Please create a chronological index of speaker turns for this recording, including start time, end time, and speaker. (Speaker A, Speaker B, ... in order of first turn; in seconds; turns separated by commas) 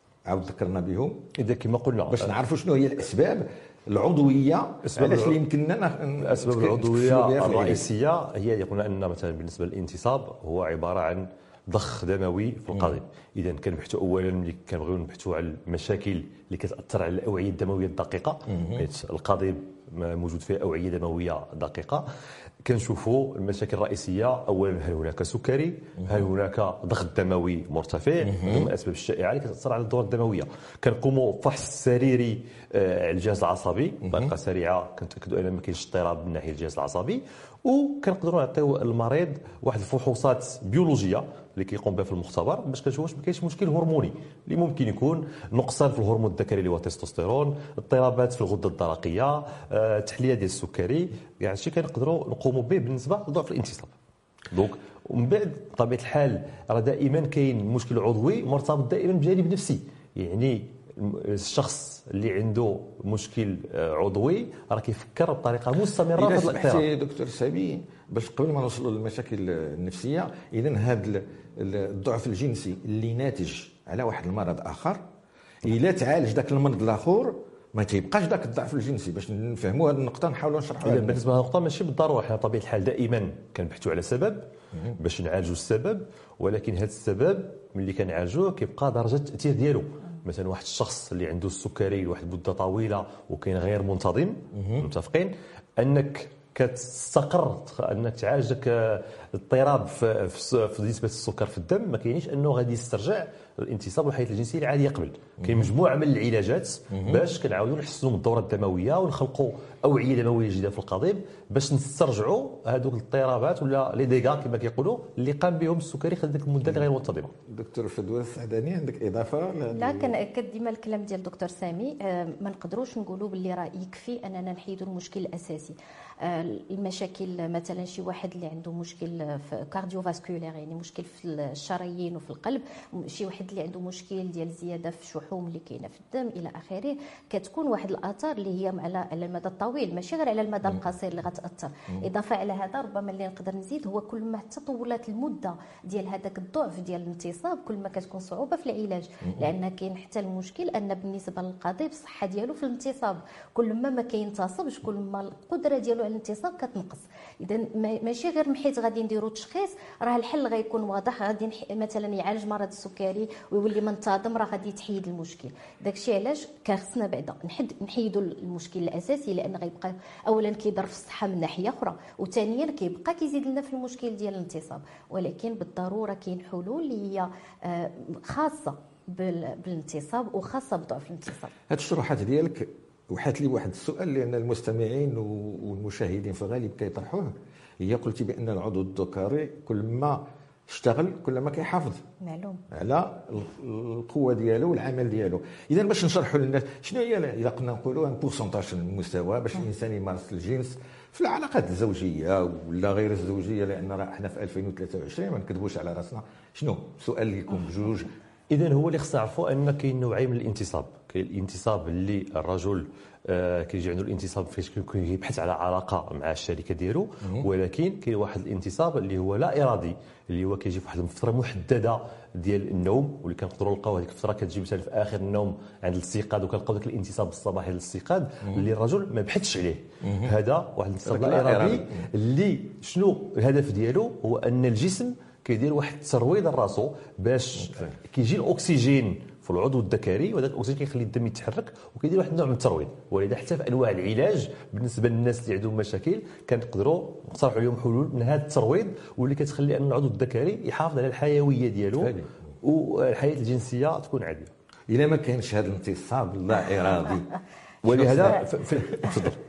Speaker A: 0.3-1.3, Speaker B: 1.4-2.3, Speaker A: 2.1-7.8, Speaker B: 4.9-5.4, Speaker B: 6.2-22.1, Speaker A: 18.6-18.8, Speaker B: 22.6-53.9, Speaker A: 28.3-28.7, Speaker B: 54.5-66.9, Speaker A: 66.1-75.0, Speaker A: 75.6-81.2, Speaker B: 80.8-117.3, Speaker A: 94.5-94.9, Speaker A: 105.4-105.7, Speaker A: 106.9-107.2, Speaker A: 117.5-120.2, Speaker C: 119.7-181.5, Speaker A: 181.7-192.0, Speaker C: 192.2-192.6, Speaker A: 192.7-208.1, Speaker B: 208.5-254.5, Speaker A: 217.2-217.5, Speaker A: 230.0-230.3, Speaker A: 231.1-232.1, Speaker A: 252.0-252.3, Speaker A: 254.9-257.3, Speaker B: 257.8-259.4, Speaker A: 257.9-259.4